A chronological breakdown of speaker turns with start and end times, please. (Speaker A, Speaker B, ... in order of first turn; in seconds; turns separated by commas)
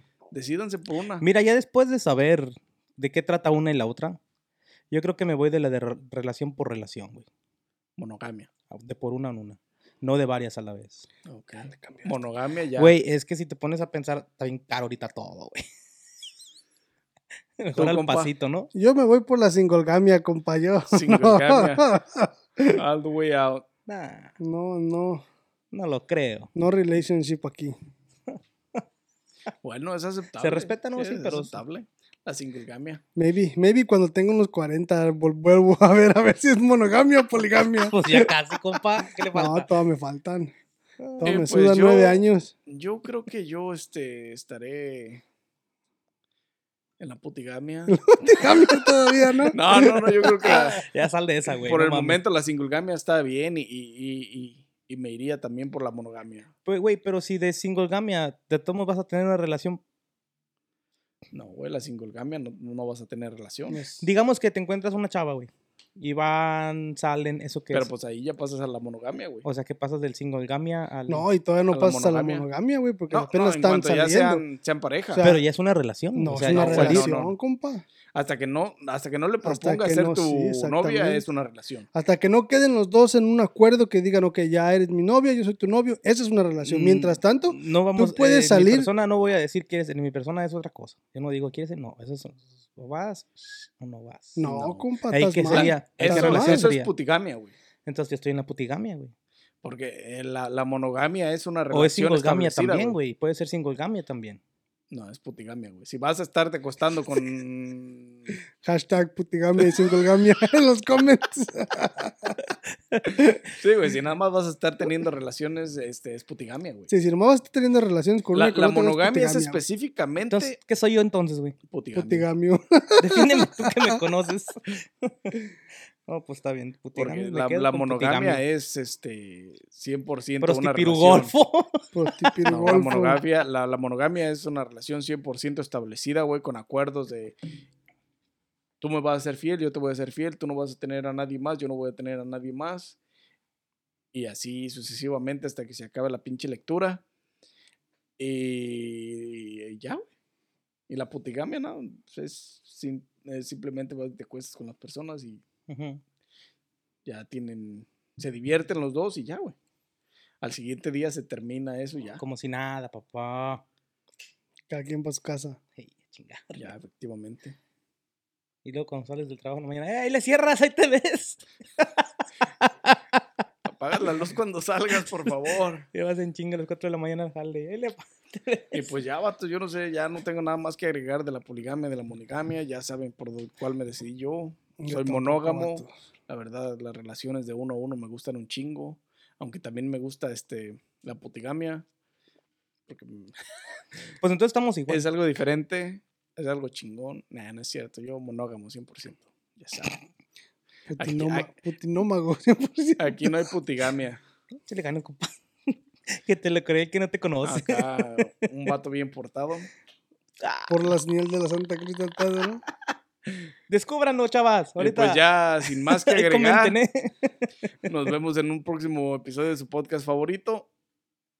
Speaker A: 0.3-1.2, Speaker B: 1.2-4.2, Speaker B: 4.9-7.2, Speaker A: 8.0-8.5, Speaker B: 8.7-11.1, Speaker A: 11.2-13.0, Speaker C: 11.7-12.1, Speaker B: 12.8-15.7, Speaker B: 17.6-18.7, Speaker A: 17.8-18.3, Speaker C: 18.7-22.8, Speaker A: 20.9-21.9, Speaker A: 22.7-23.6, Speaker B: 23.9-24.3, Speaker C: 24.4-25.2, Speaker B: 25.7-26.5, Speaker C: 26.5-27.8, Speaker B: 28.3-28.8, Speaker A: 29.6-33.0, Speaker B: 30.4-31.6, Speaker C: 33.1-38.3, Speaker B: 37.9-39.7, Speaker C: 39.3-40.5, Speaker B: 41.0-41.4, Speaker C: 41.2-42.5, Speaker A: 41.2-45.2, Speaker A: 47.0-48.7, Speaker C: 47.9-50.5, Speaker A: 49.5-50.8, Speaker B: 50.4-52.2, Speaker A: 51.6-56.5, Speaker B: 56.6-59.8, Speaker A: 61.3-63.8, Speaker C: 63.7-64.1, Speaker B: 64.0-67.9, Speaker A: 67.7-69.5, Speaker B: 69.4-71.2, Speaker C: 71.1-74.4, Speaker A: 71.7-72.4, Speaker A: 73.1-75.2, Speaker C: 75.1-75.4, Speaker B: 75.2-77.1, Speaker C: 76.1-77.8, Speaker A: 76.5-77.3, Speaker A: 78.1-81.9, Speaker C: 79.4-81.2, Speaker C: 81.9-88.9, Speaker B: 86.6-96.9, Speaker C: 94.4-96.6, Speaker A: 95.5-97.5, Speaker B: 97.8-99.1, Speaker A: 99.6-103.0, Speaker B: 101.7-104.4, Speaker A: 104.9-108.3, Speaker C: 108.6-112.4, Speaker B: 112.5-113.2, Speaker A: 113.5-116.9, Speaker C: 116.9-119.6, Speaker A: 118.3-120.6, Speaker B: 120.3-121.5, Speaker A: 121.7-122.3, Speaker C: 121.9-124.0, Speaker B: 123.0-125.3, Speaker B: 126.1-128.4, Speaker A: 127.0-131.3, Speaker B: 130.4-132.5, Speaker C: 131.9-133.2, Speaker A: 132.5-137.4, Speaker A: 138.8-142.9, Speaker A: 144.1-147.0, Speaker A: 148.2-150.1, Speaker A: 150.9-155.4, Speaker B: 155.7-156.0, Speaker A: 157.1-159.6, Speaker A: 160.4-162.2, Speaker B: 162.2-163.6, Speaker C: 164.7-165.6, Speaker B: 165.8-166.7, Speaker A: 166.5-167.6, Speaker B: 168.6-173.2, Speaker A: 173.7-175.9, Speaker B: 174.9-175.3, Speaker B: 175.9-178.9, Speaker A: 178.7-191.8, Speaker C: 184.8-185.9, Speaker A: 192.9-193.3, Speaker B: 194.2-195.0, Speaker A: 194.9-200.0, Speaker C: 200.9-203.3, Speaker A: 201.0-201.5, Speaker A: 203.0-204.2, Speaker B: 204.7-207.9, Speaker A: 207.4-209.7, Speaker B: 210.4-210.9, Speaker C: 210.7-212.6, Speaker B: 213.7-217.5, Speaker A: 214.8-216.8, Speaker A: 217.8-220.7